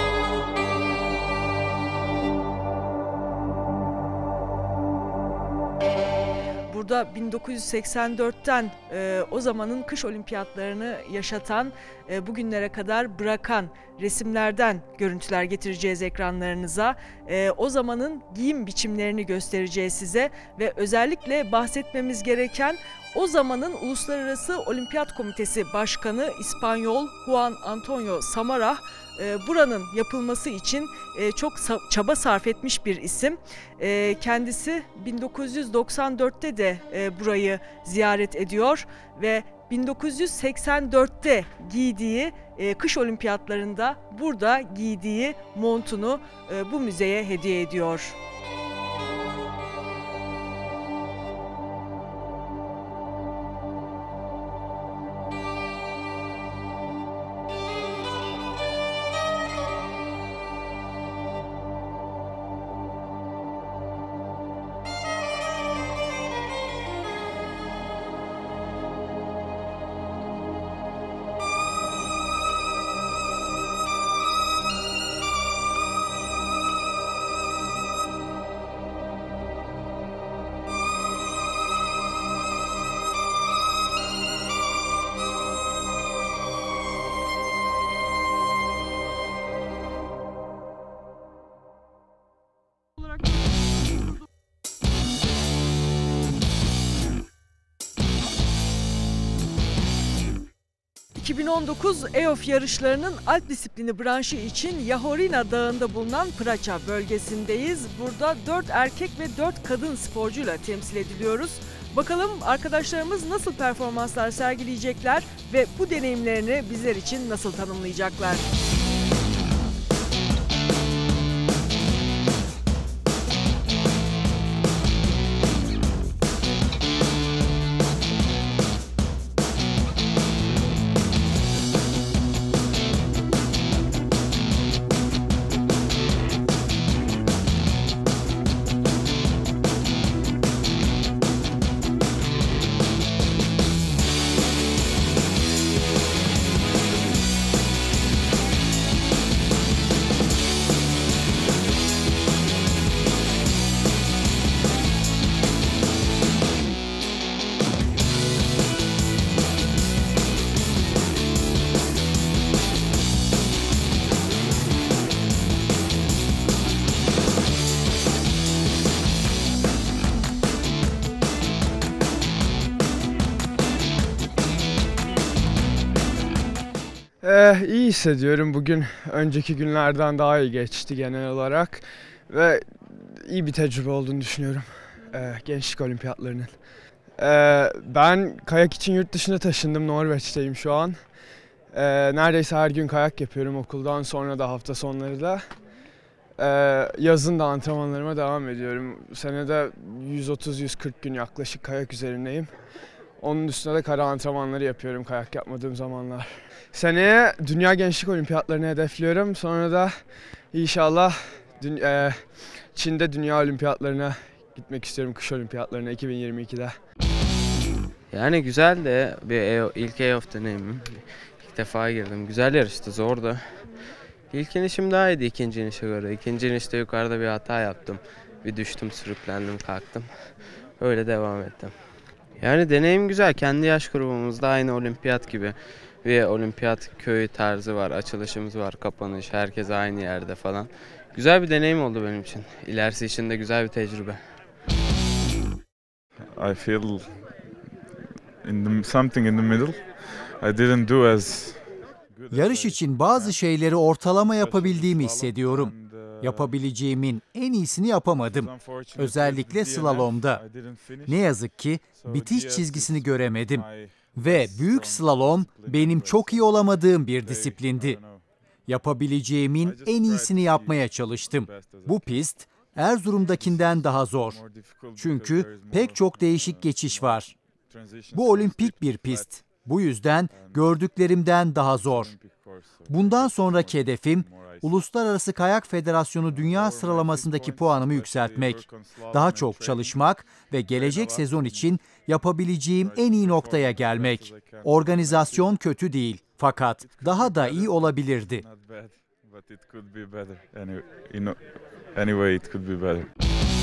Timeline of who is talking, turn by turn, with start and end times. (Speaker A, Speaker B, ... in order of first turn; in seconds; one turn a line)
Speaker A: 6.7-48.2
Speaker A: 101.2-118.4
Speaker B: 177.2-186.6
Speaker B: 187.2-191.2
Speaker B: 191.7-195.4
Speaker B: 196.4-202.6
Speaker B: 203.2-216.7
Speaker C: 218.1-223.6
Speaker C: 224.3-230.1
Speaker C: 230.8-231.7
Speaker C: 232.4-244.2
Speaker D: 246.4-247.1
Speaker D: 248.4-253.4
Speaker E: 252.3-260.4
Speaker D: 254.3-256.5
Speaker D: 258.2-261.3
Speaker E: 261.1-263.6
Speaker D: 261.9-266.5
Speaker E: 264.1-268.0
Speaker D: 267.2-268.2
Speaker E: 268.7-274.4
Speaker D: 269.6-272.3
Speaker D: 273.3-279.5
Speaker E: 275.0-277.3
Speaker E: 278.1-282.1
Speaker D: 280.3-280.7
Speaker D: 281.8-284.8
Speaker E: 282.9-298.4
Speaker D: 286.2-290.0
Speaker D: 290.7-291.7
Speaker D: 292.8-295.5
Speaker D: 296.8-301.4
Speaker D: 301.9-303.1